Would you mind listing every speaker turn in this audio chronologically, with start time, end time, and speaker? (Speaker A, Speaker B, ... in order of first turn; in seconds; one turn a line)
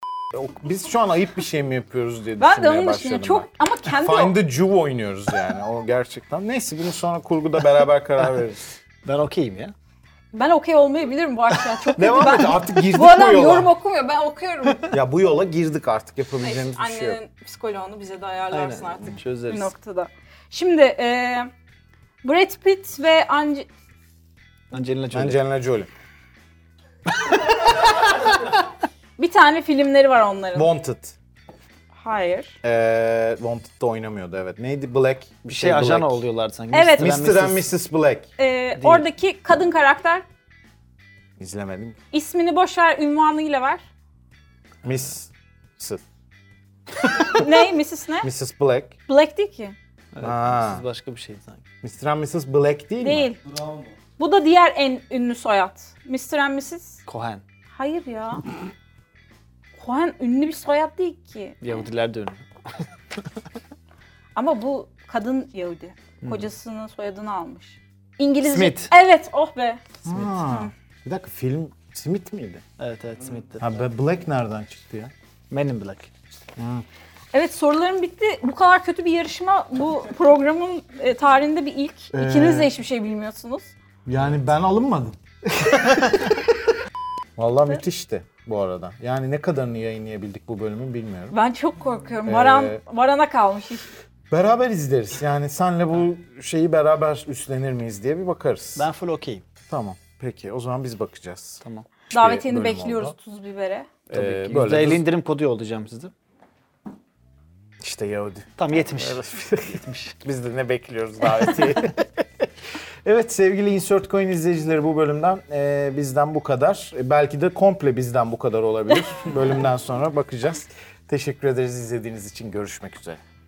Speaker A: 0.3-8.6
Speaker B: 2.4-4.4
Speaker C: 9.0-9.7
Speaker B: 10.3-14.9
Speaker A: 11.9-13.7
Speaker A: 14.9-17.2
Speaker B: 16.4-21.5
Speaker C: 18.5-19.7
Speaker B: 22.2-23.7
Speaker C: 24.7-25.4
Speaker A: 25.1-25.9
Speaker B: 29.2-30.7
Speaker A: 30.5-31.1
Speaker B: 31.9-32.5
Speaker A: 32.6-36.2
Speaker C: 35.5-37.7
Speaker B: 36.7-37.2
Speaker A: 37.0-38.3
Speaker B: 38.4-40.2
Speaker C: 38.8-39.0
Speaker A: 41.4-42.0
Speaker B: 42.1-43.8
Speaker A: 44.8-46.0
Speaker B: 47.2-48.3
Speaker A: 48.2-48.9
Speaker B: 49.1-49.7
Speaker C: 50.1-51.6
Speaker A: 50.2-50.8
Speaker A: 51.8-53.3
Speaker B: 53.0-53.4
Speaker B: 54.2-57.0
Speaker C: 57.1-57.4
Speaker B: 57.7-58.5
Speaker B: 59.8-61.9
Speaker C: 61.6-62.4
Speaker B: 64.3-70.7
Speaker C: 68.5-68.9
Speaker A: 70.0-72.6
Speaker C: 72.8-73.7
Speaker A: 73.6-75.1
Speaker C: 75.5-76.1
Speaker A: 76.6-76.8
Speaker B: 77.3-83.7
Speaker A: 82.1-82.7
Speaker A: 84.0-86.3
Speaker A: 87.4-91.3
Speaker B: 91.3-93.8
Speaker A: 92.2-92.8
Speaker A: 94.3-98.8
Speaker C: 98.8-99.4
Speaker A: 99.7-103.1
Speaker C: 101.6-101.9
Speaker B: 102.1-103.9
Speaker A: 104.1-105.0
Speaker C: 104.1-106.1
Speaker A: 107.8-109.3
Speaker C: 108.6-110.2
Speaker A: 110.2-112.1
Speaker A: 113.0-123.2